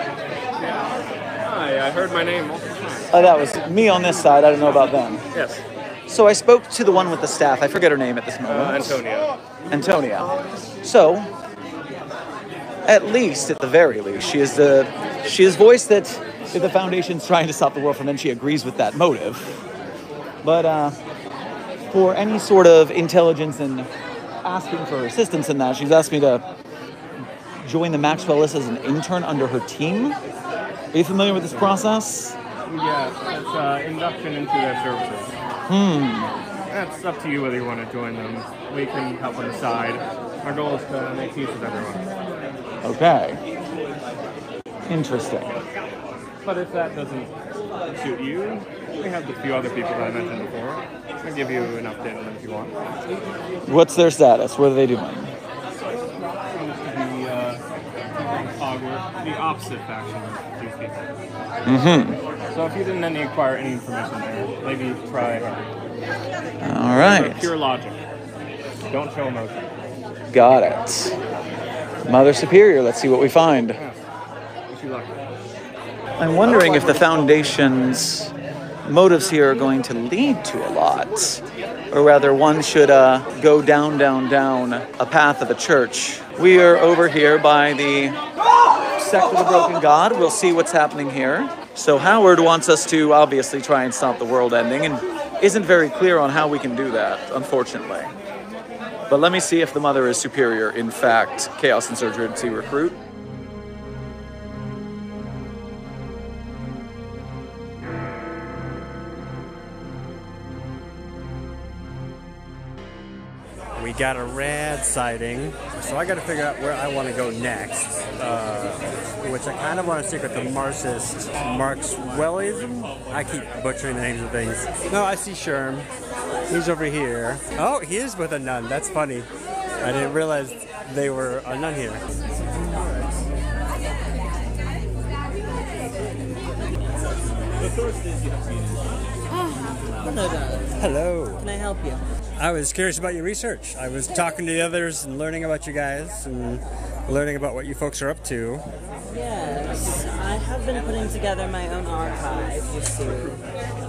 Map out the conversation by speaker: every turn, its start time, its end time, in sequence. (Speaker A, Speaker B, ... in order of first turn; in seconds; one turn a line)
Speaker A: 1.4-3.1
Speaker B: 3.1-5.2
Speaker A: 5.3-5.6
Speaker B: 6.1-9.0
Speaker A: 8.4-9.3
Speaker B: 9.7-10.3
Speaker B: 10.8-11.3
Speaker B: 12.8-19.6
Speaker B: 20.4-21.0
Speaker B: 21.9-23.9
Speaker B: 24.4-26.4
Speaker B: 27.6-30.2
Speaker B: 30.9-32.4
Speaker A: 31.5-31.8
Speaker A: 32.7-35.3
Speaker B: 35.7-36.3
Speaker A: 36.7-42.1
Speaker B: 42.8-43.4
Speaker B: 44.9-45.5
Speaker A: 46.4-47.3
Speaker A: 47.9-52.7
Speaker B: 53.6-55.3
Speaker A: 56.5-57.6
Speaker A: 58.2-61.1
Speaker B: 61.6-62.2
Speaker A: 62.5-65.7
Speaker B: 66.6-67.5
Speaker A: 66.9-68.0
Speaker A: 68.9-69.7
Speaker B: 70.3-71.2
Speaker B: 72.0-73.8
Speaker A: 74.7-75.2
Speaker B: 76.2-78.3
Speaker B: 78.8-88.2
Speaker B: 88.8-98.1
Speaker B: 99.1-103.0
Speaker C: 113.8-125.9
Speaker C: 126.5-129.3
Speaker C: 129.8-132.0
Speaker D: 132.3-133.2
Speaker D: 139.3-142.0
Speaker C: 140.8-141.4
Speaker C: 142.4-148.6
Speaker D: 149.1-153.4